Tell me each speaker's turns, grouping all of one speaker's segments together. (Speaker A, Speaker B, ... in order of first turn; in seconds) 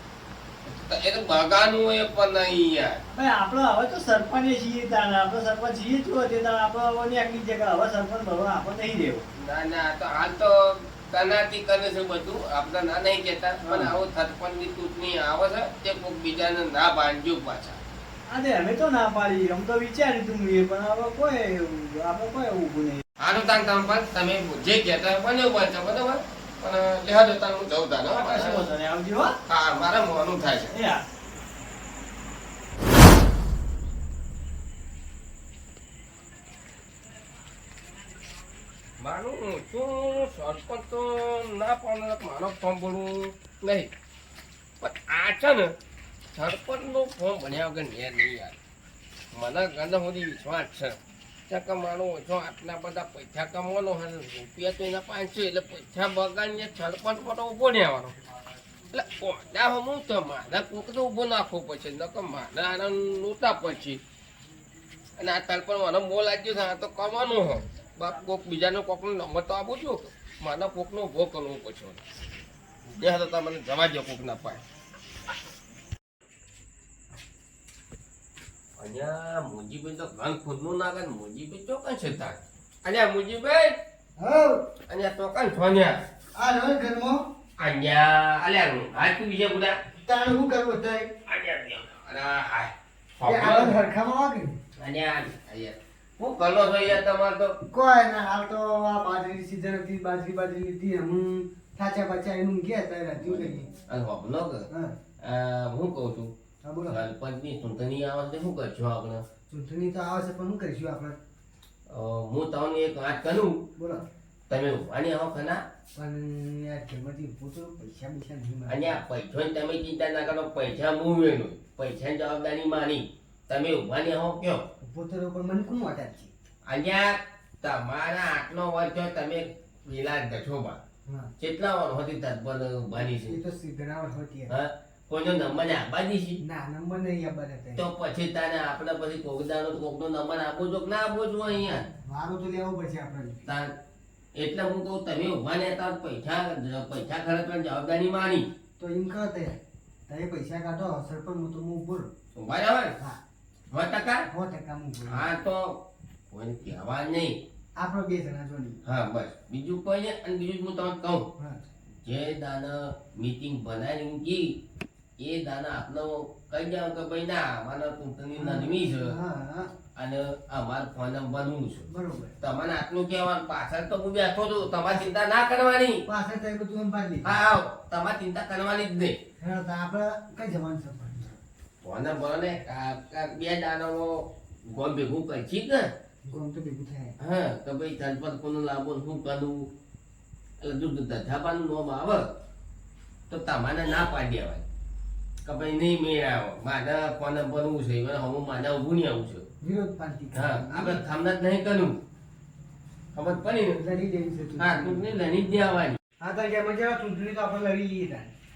Speaker A: 0.6-3.0, 9.3-17.8, 23.2-28.6, 29.5-30.7, 39.0-43.9, 44.8-45.7, 46.3-48.6, 49.3-58.1, 58.9-64.0, 65.2-72.0, 73.0-74.6, 78.8-83.7, 84.9-86.0, 87.6-89.7, 91.3-93.8, 94.8-97.5, 103.2-104.7, 105.2-106.3, 106.9-109.2, 111.9-113.6, 114.5-115.6, 118.7-124.6, 126.7-130.8, 131.4-133.4, 134.5-136.4, 137.8-141.9, 144.3-148.5, 152.3-152.9, 153.7-154.2, 155.1-155.8, 156.3-157.4, 158.8-161.3, 162.0-164.6, 165.2-169.1, 169.9-171.9, 172.4-176.0, 177.2-179.2, 181.8-184.1, 184.7-185.9, 187.2-189.7, 190.6-192.2, 193.3-194.6, 195.4-199.4, 200.3-202.0, 203.1-203.8, 204.6-206.0
Speaker B: 3.1-9.2, 13.6-13.9, 18.3-23.0, 28.1-29.3, 30.7-31.0
Speaker C: 84.2-84.7, 86.3-87.2, 90.0-91.1, 93.2-94.5, 97.7-103.7, 106.6-107.0, 109.5-111.2, 113.8-114.0, 115.9-118.9, 124.8-126.3, 131.1-131.3, 133.1-134.5, 136.4-137.8, 142.0-143.5, 148.8-152.1, 154.3-155.2, 157.8-158.8, 168.4-169.7, 171.9-172.3, 176.1-177.3, 179.4-181.3, 186.2-187.1, 199.6-201.0, 203.8-205.0, 206.2-208.3